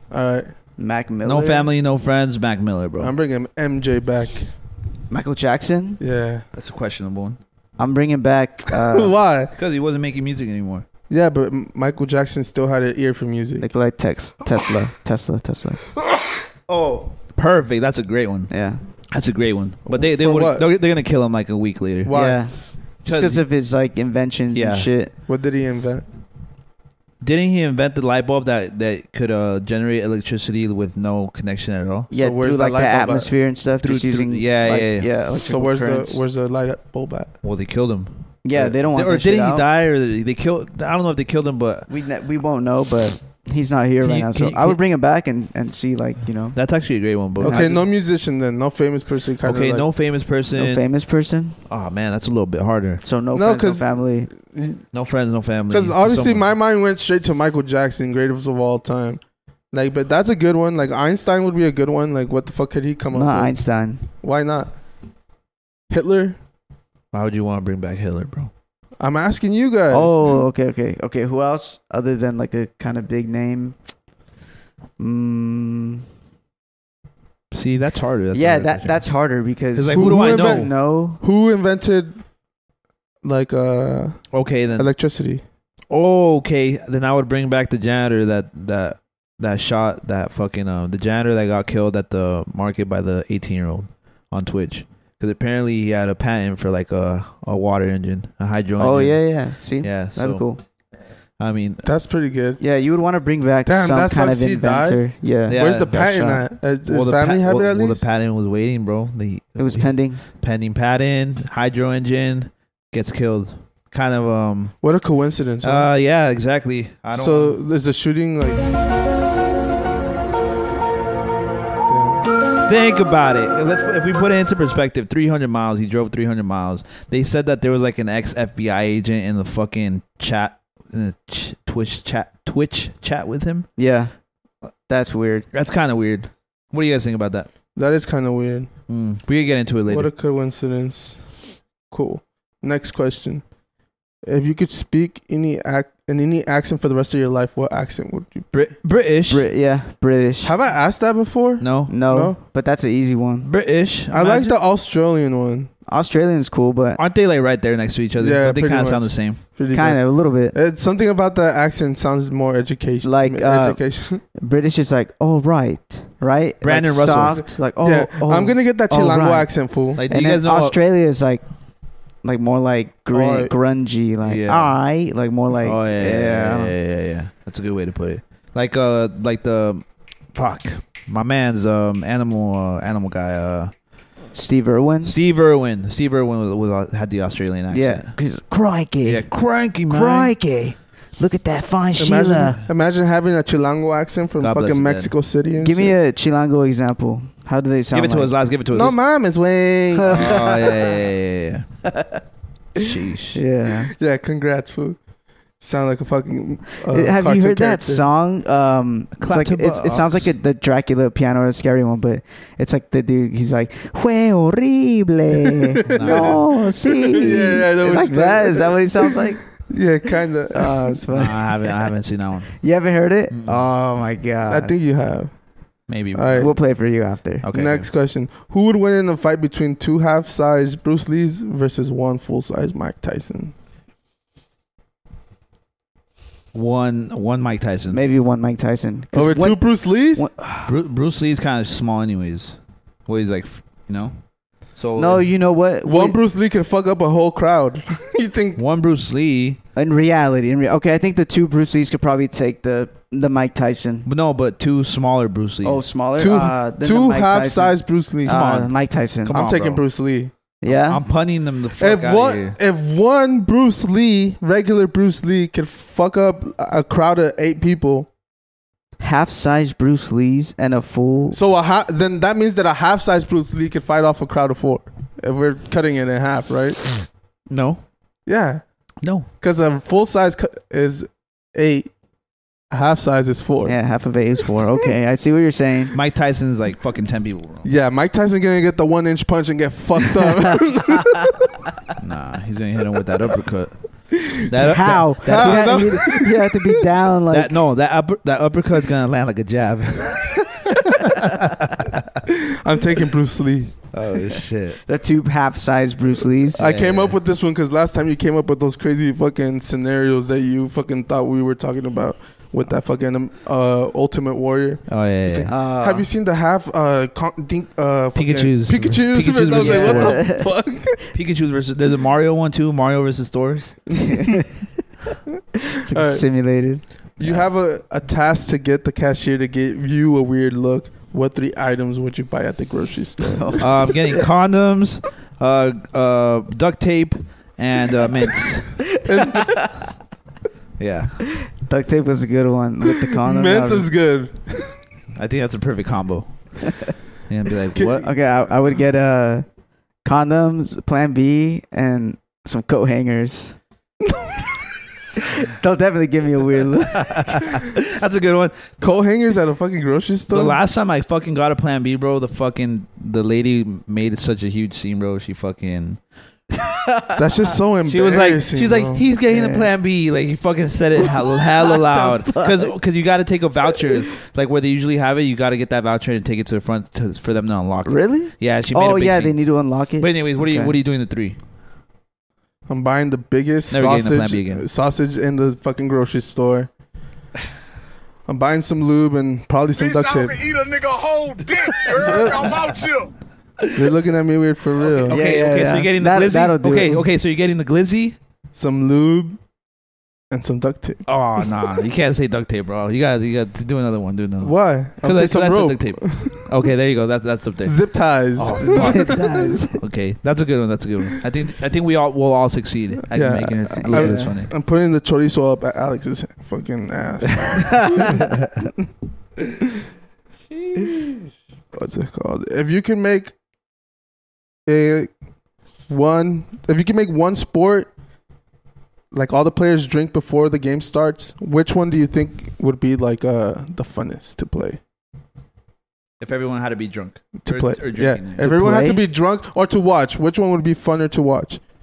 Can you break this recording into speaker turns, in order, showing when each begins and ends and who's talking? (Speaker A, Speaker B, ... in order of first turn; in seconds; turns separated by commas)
Speaker A: 0.1-0.5, Speaker B: 0.8-1.7, Speaker C: 1.2-3.1, Speaker A: 3.0-4.5, Speaker B: 5.1-6.0, Speaker A: 6.0-6.4, Speaker C: 6.5-7.4, Speaker B: 7.8-9.1, Speaker A: 8.8-9.5, Speaker C: 9.6-10.8, Speaker A: 11.1-13.7, Speaker B: 13.6-15.8, Speaker C: 16.7-18.5, Speaker B: 18.5-18.8, Speaker C: 19.1-22.4, Speaker A: 19.9-20.6, Speaker A: 22.0-22.4, Speaker B: 22.1-25.1, Speaker C: 23.0-23.4, Speaker C: 24.5-24.9, Speaker A: 25.3-26.1, Speaker C: 27.2-32.1, Speaker B: 32.1-36.2, Speaker A: 32.1-33.3, Speaker C: 33.8-35.2, Speaker A: 35.5-37.3, Speaker C: 37.4-41.9, Speaker B: 38.4-39.7, Speaker B: 41.9-46.6, Speaker C: 44.0-44.8, Speaker C: 46.5-47.8, Speaker A: 47.4-49.9, Speaker B: 47.4-47.7, Speaker C: 49.4-50.8, Speaker B: 50.5-51.6, Speaker C: 51.7-53.0, Speaker B: 53.0-54.3, Speaker A: 53.3-54.8, Speaker C: 54.9-56.5, Speaker A: 55.7-63.6, Speaker B: 63.1-64.0, Speaker A: 64.2-64.7, Speaker A: 65.9-66.4, Speaker C: 67.1-68.5, Speaker A: 69.0-70.3, Speaker B: 69.9-73.8, Speaker B: 75.0-76.0, Speaker C: 77.5-79.0, Speaker B: 78.3-81.2, Speaker C: 79.7-80.7, Speaker A: 79.9-82.2, Speaker A: 83.2-85.4, Speaker C: 84.3-84.9, Speaker C: 85.9-100.5, Speaker B: 98.8-100.6, Speaker C: 101.4-101.9, Speaker A: 101.8-102.6, Speaker B: 102.6-106.3, Speaker A: 103.7-108.0, Speaker C: 105.5-114.8, Speaker B: 109.6-110.2, Speaker A: 114.8-115.9, Speaker C: 115.6-117.6, Speaker A: 117.1-118.7, Speaker A: 121.9-122.2, Speaker C: 122.7-133.7, Speaker B: 133.8-134.1, Speaker B: 134.9-135.5, Speaker C: 135.5-137.5, Speaker A: 137.7-138.7, Speaker C: 138.9-140.1, Speaker A: 139.9-143.4, Speaker A: 144.2-148.5, Speaker C: 148.5-149.4, Speaker B: 149.3-150.5, Speaker A: 150.4-152.4, Speaker C: 151.6-151.9, Speaker B: 151.9-153.5, Speaker C: 153.4-154.6, Speaker A: 154.1-155.7, Speaker B: 155.9-157.0, Speaker C: 157.0-159.4, Speaker A: 158.2-164.2, Speaker B: 159.7-160.6, Speaker B: 163.0-171.4, Speaker C: 166.6-167.5, Speaker A: 167.8-170.0, Speaker C: 170.0-170.8, Speaker B: 172.2-176.7, Speaker A: 173.1-173.5, Speaker C: 174.2-174.8, Speaker C: 175.6-183.7, Speaker B: 184.3-185.2, Speaker C: 185.0-188.1, Speaker B: 187.7-189.3, Speaker C: 189.0-190.3, Speaker B: 189.9-192.6, Speaker A: 192.0-195.9, Speaker C: 194.4-195.1, Speaker B: 195.6-198.3, Speaker C: 197.9-199.0, Speaker A: 198.7-200.4, Speaker B: 200.0-200.8, Speaker C: 200.0-201.7, Speaker B: 201.9-202.2, Speaker C: 202.7-203.4, Speaker B: 203.3-203.9, Speaker A: 204.0-205.0, Speaker A: 205.6-208.0, Speaker B: 206.9-219.7, Speaker C: 209.2-210.3, Speaker C: 215.9-216.4, Speaker A: 216.0-219.1, Speaker A: 219.7-220.9, Speaker B: 220.5-221.9, Speaker C: 221.1-222.6, Speaker B: 222.6-224.7, Speaker C: 223.3-223.7, Speaker A: 224.5-225.3, Speaker C: 225.9-226.8, Speaker A: 226.1-226.5, Speaker B: 226.3-227.4, Speaker C: 227.4-227.9, Speaker A: 227.5-233.5, Speaker C: 236.5-238.0, Speaker B: 237.9-240.7, Speaker A: 239.1-240.3, Speaker C: 240.6-244.1, Speaker C: 244.7-245.3, Speaker B: 245.0-246.2, Speaker A: 245.8-248.6, Speaker C: 248.6-249.6, Speaker B: 249.7-254.1, Speaker C: 254.0-255.8, Speaker B: 255.6-259.4, Speaker A: 256.2-258.6, Speaker C: 258.3-258.7, Speaker C: 259.2-259.8, Speaker A: 259.3-260.3, Speaker B: 260.6-261.0, Speaker C: 260.6-262.6, Speaker A: 261.8-268.1, Speaker B: 269.0-271.4, Speaker A: 271.3-277.0, Speaker C: 277.5-277.8, Speaker A: 278.3-278.6, Speaker C: 279.0-279.3, Speaker A: 279.4-281.9, Speaker A: 282.7-283.8, Speaker B: 283.6-285.9, Speaker C: 285.9-287.7, Speaker A: 287.6-291.3, Speaker C: 292.0-296.1, Speaker B: 294.7-297.5, Speaker A: 295.2-296.5, Speaker C: 297.3-302.0, Speaker A: 302.6-303.7, Speaker C: 303.9-304.8, Speaker B: 304.8-306.6, Speaker A: 306.5-321.0, Speaker C: 306.6-307.1, Speaker C: 314.9-315.5, Speaker B: 315.5-316.1, Speaker C: 318.1-320.5, Speaker B: 319.6-320.5, Speaker C: 321.1-323.9, Speaker B: 324.1-324.4, Speaker B: 325.8-326.9, Speaker A: 325.9-326.2, Speaker A: 327.2-333.7, Speaker B: 333.2-334.2, Speaker C: 333.6-338.9, Speaker A: 339.1-339.6, Speaker C: 340.8-341.3, Speaker B: 341.5-343.9, Speaker A: 343.2-344.8, Speaker C: 345.1-348.1, Speaker B: 347.9-349.4, Speaker B: 350.0-353.6, Speaker B: 355.2-357.5, Speaker C: 356.9-358.7, Speaker A: 358.8-360.6, Speaker C: 360.3-366.0, Speaker B: 366.8-367.1, Speaker A: 367.1-369.0, Speaker C: 367.9-379.4, Speaker B: 369.3-369.7, Speaker B: 371.7-372.7, Speaker B: 377.8-380.7, Speaker C: 380.0-381.4, Speaker A: 382.7-386.7, Speaker C: 383.7-384.7, Speaker A: 388.3-390.4, Speaker D: 389.8-393.1, Speaker A: 391.9-392.5, Speaker A: 393.7-395.1, Speaker C: 395.1-398.2, Speaker B: 395.1-397.1, Speaker A: 398.5-399.4, Speaker A: 400.3-401.0, Speaker C: 401.1-409.2, Speaker A: 404.4-406.4, Speaker A: 407.6-409.3, Speaker B: 408.6-409.8, Speaker C: 409.8-414.5, Speaker A: 413.1-418.2, Speaker B: 413.8-414.3, Speaker B: 417.6-418.1, Speaker A: 421.7-423.3, Speaker A: 424.6-425.1, Speaker A: 425.9-427.9, Speaker A: 429.1-434.8, Speaker C: 436.2-438.7, Speaker A: 437.4-441.6, Speaker B: 438.4-439.0